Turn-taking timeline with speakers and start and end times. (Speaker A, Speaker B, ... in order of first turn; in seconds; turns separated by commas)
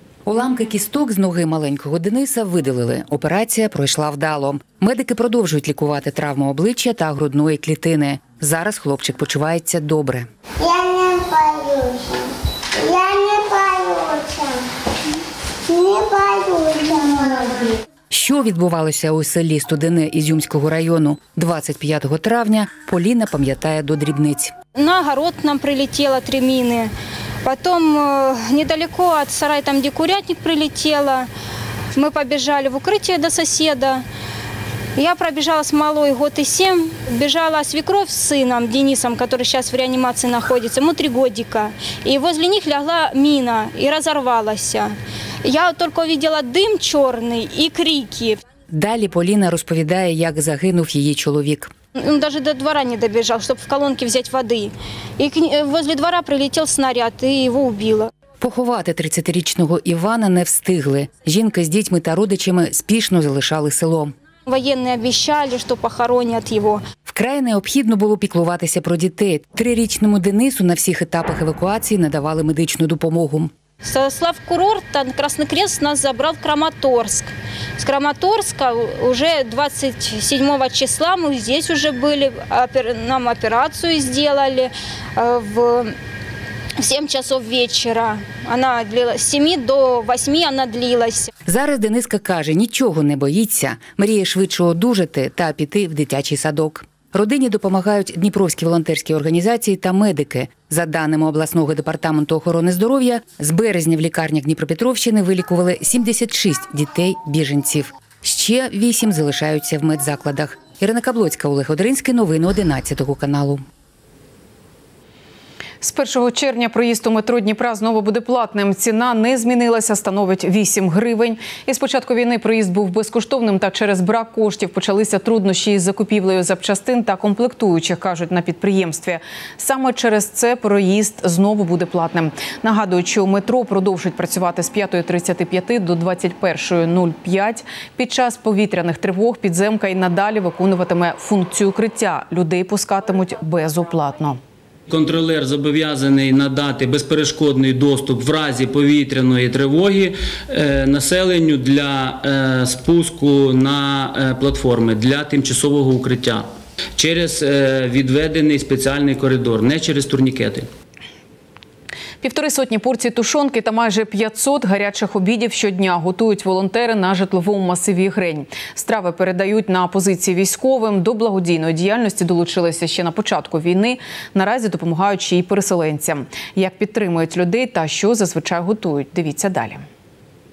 Speaker A: 0.2-10.3, Speaker B: 10.6-12.2, Speaker B: 12.8-14.6, Speaker B: 15.7-17.7, Speaker A: 18.1-24.5, Speaker C: 24.7-26.9, Speaker C: 27.4-31.3, Speaker C: 31.9-34.0, Speaker C: 35.0-48.4, Speaker A: 48.7-51.7, Speaker C: 52.0-58.1, Speaker A: 58.4-64.1, Speaker C: 64.5-66.8, Speaker A: 67.1-73.5, Speaker C: 73.8-85.9, Speaker C: 86.8-91.3, Speaker A: 91.5-113.6, Speaker D: 115.8-144.4, Speaker E: 144.9-160.7, Speaker D: 162.2-179.8